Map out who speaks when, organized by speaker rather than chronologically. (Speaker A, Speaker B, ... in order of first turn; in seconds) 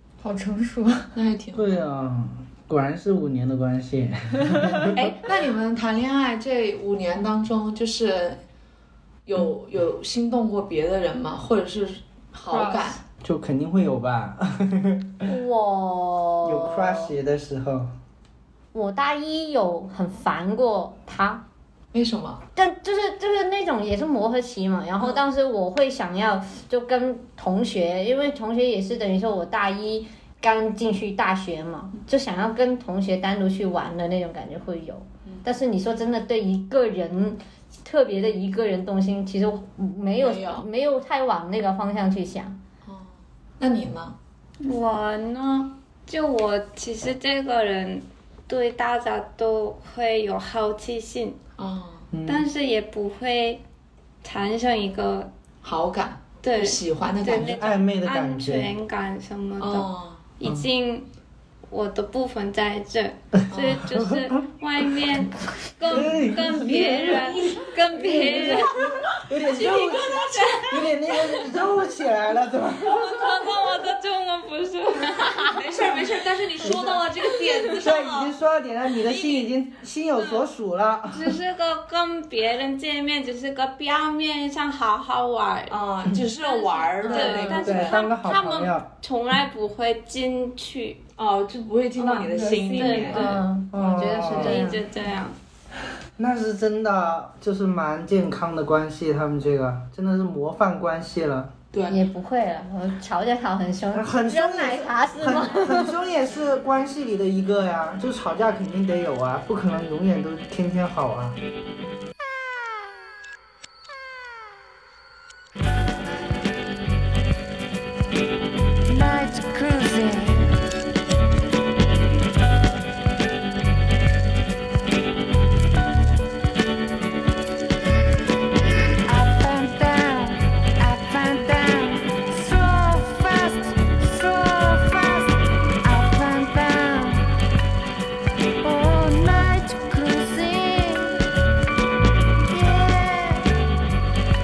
Speaker A: 0.2-1.1, 12.5-13.0, 87.1-87.6, 92.0-93.4
Speaker B: 1.1-1.6, 4.9-8.4, 9.2-13.0, 21.9-22.4, 40.2-40.7, 42.8-44.1, 51.6-52.1, 55.6-57.5, 59.6-60.2, 63.5-63.8, 68.2-68.6, 69.5-70.6, 75.4-78.3, 79.0-79.5, 85.7-88.0, 91.2-93.3, 101.7-102.0
Speaker C: 1.5-5.0, 13.2-15.2, 16.4-17.9, 52.1-52.5, 57.2-58.7, 63.8-64.3, 65.9-73.5, 76.6-77.0, 77.8-81.4, 87.6-88.9, 93.7-94.6, 96.2-101.5, 103.9-111.4
Speaker D: 15.2-17.1, 18.7-21.4, 22.6-42.6, 92.8-94.8, 101.9-106.0
Speaker E: 44.6-51.4, 52.2-53.6, 54.2-55.3, 56.4-61.1, 61.7-71.5, 72.9-75.9, 76.7-77.8, 80.2-80.4, 81.1-85.8, 86.3-91.0, 92.7-93.4, 94.3-95.4
Speaker F: 118.9-120.5, 129.1-135.3, 135.8-137.3, 138.6-141.2, 142.5-143.5